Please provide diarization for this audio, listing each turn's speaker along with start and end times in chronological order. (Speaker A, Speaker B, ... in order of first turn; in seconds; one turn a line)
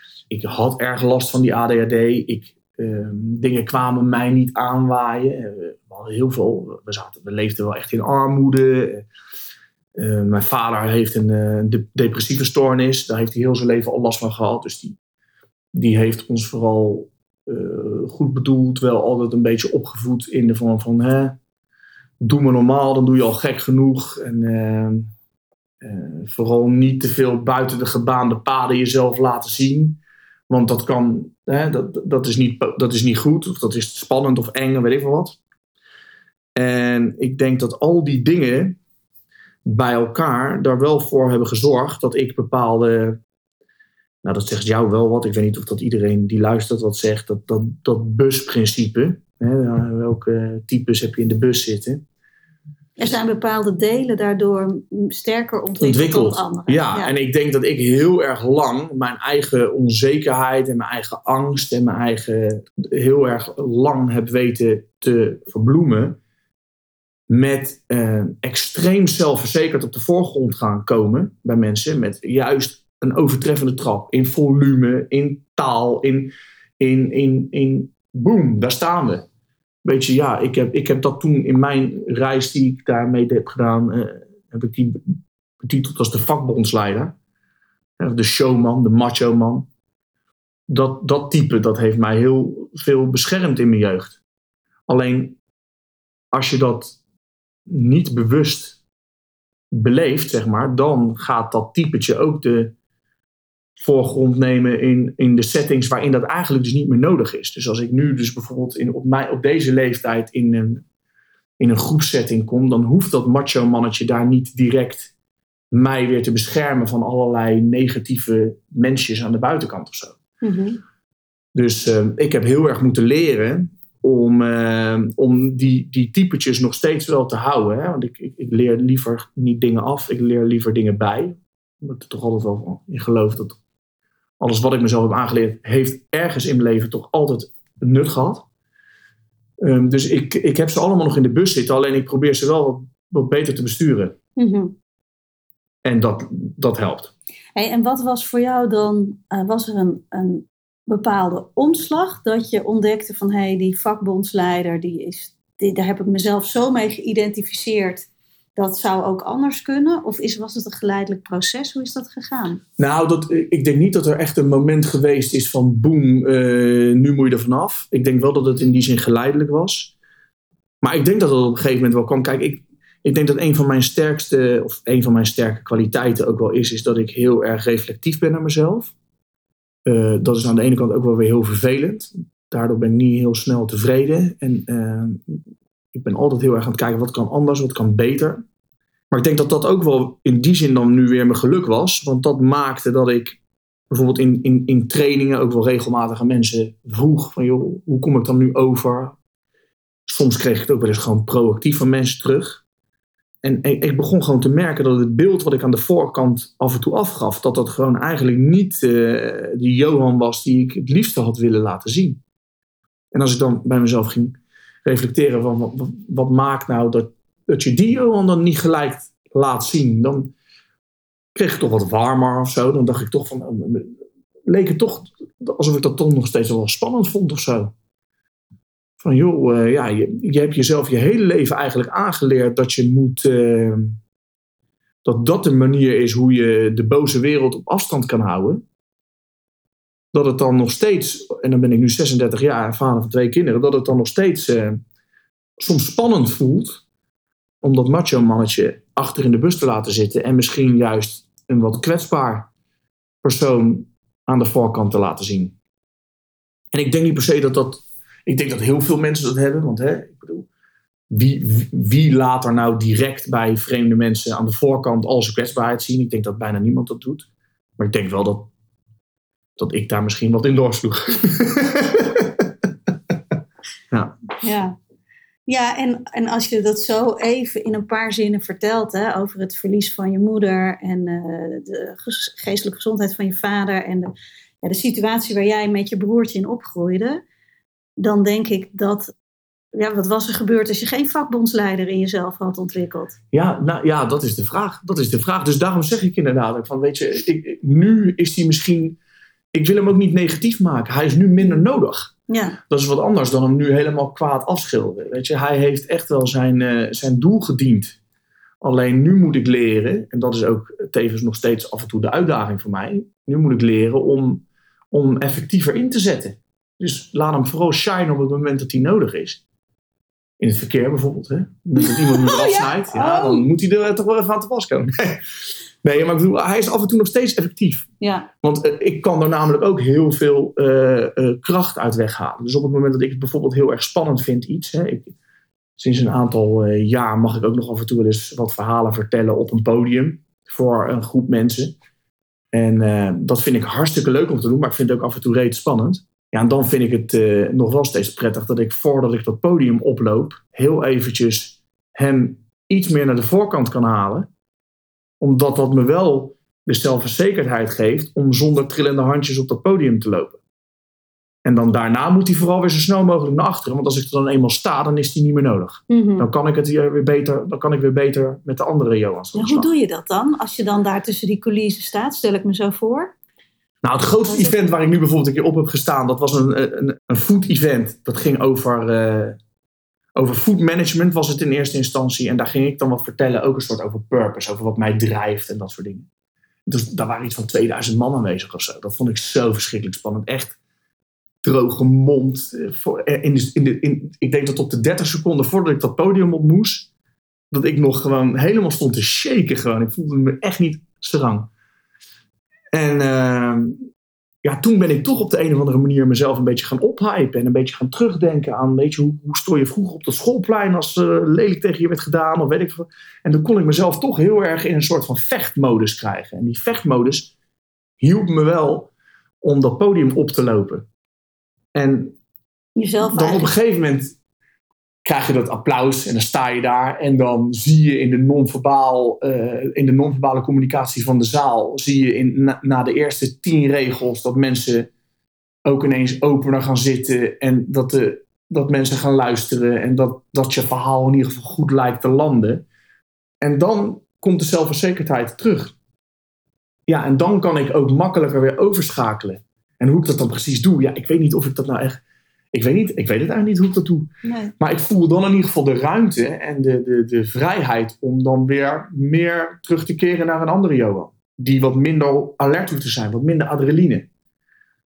Speaker A: 0.3-9.1
Speaker A: 9.9-15.0
Speaker A: 15.7-21.4
Speaker A: 22.2-25.1
Speaker A: 25.8-35.4
Speaker A: 36.5-38.8
Speaker A: 39.6-43.2
Speaker A: 44.2-52.0
Speaker B: 53.0-57.1
Speaker A: 55.8-66.2
Speaker A: 67.3-79.2
Speaker A: 79.8-87.2
Speaker A: 88.0-89.7
Speaker A: 90.7-94.2
Speaker A: 94.9-95.4
Speaker A: 96.3-97.0
Speaker A: 97.7-98.8
Speaker A: 99.7-102.7
Speaker A: 103.8-110.8
Speaker A: 111.6-115.1
Speaker A: 115.7-120.2
Speaker B: 120.4-120.8
Speaker A: 121.5-133.6
Speaker A: 134.4-138.4
Speaker A: 139.6-144.2
Speaker B: 144.4-144.8
Speaker A: 145.8-147.1
Speaker B: 147.5-162.6
Speaker A: 162.8-169.9
Speaker A: 170.8-178.9
Speaker A: 179.8-185.4
Speaker A: 185.9-188.4
Speaker A: 189.1-193.4
Speaker A: 193.9-199.2
Speaker A: 200.1-202.6
Speaker A: 203.4-212.2
Speaker A: 213.1-220.3
Speaker A: 221.3-223.9
Speaker A: 224.5-227.7
Speaker A: 229.0-234.0
Speaker A: 235.0-238.6
Speaker A: 240.1-244.8
Speaker A: 245.6-246.8
Speaker A: 247.6-252.5
Speaker A: 253.2-255.5
Speaker A: 256.7-260.5
Speaker A: 261.1-268.5
Speaker A: 269.6-272.5
Speaker A: 273.9-274.2
Speaker B: 274.4-274.8
Speaker B: 275.4-284.1
Speaker B: 284.6-287.2
Speaker B: 288.0-289.1
Speaker B: 289.7-293.1
Speaker A: 293.3-299.0
Speaker A: 299.5-302.1
Speaker B: 302.3-302.6
Speaker A: 302.7-308.0
Speaker A: 308.6-319.4
Speaker A: 320.4-325.2
Speaker B: 321.8-323.4
Speaker A: 325.8-327.9
Speaker B: 328.0-328.3
Speaker A: 328.4-335.1
Speaker A: 335.8-341.7
Speaker A: 342.5-354.3
Speaker A: 355.2-360.4
Speaker A: 361.4-369.7
Speaker B: 365.9-366.3
Speaker B: 369.3-373.1
Speaker A: 373.8-379.4
Speaker B: 374.2-374.6
Speaker A: 380.1-386.1
Speaker A: 386.6-390.6
Speaker A: 391.4-396.9
Speaker A: 397.5-401.5
Speaker A: 402.7-403.9
Speaker A: 404.4-417.3
Speaker A: 418.0-420.9
Speaker A: 421.7-422.1
Speaker B: 422.8-423.5
Speaker A: 423.1-424.1
Speaker A: 425.0-434.9
Speaker A: 435.6-442.6
Speaker A: 443.4-445.7
Speaker A: 446.9-452.0
Speaker A: 452.5-464.1
Speaker B: 454.2-454.5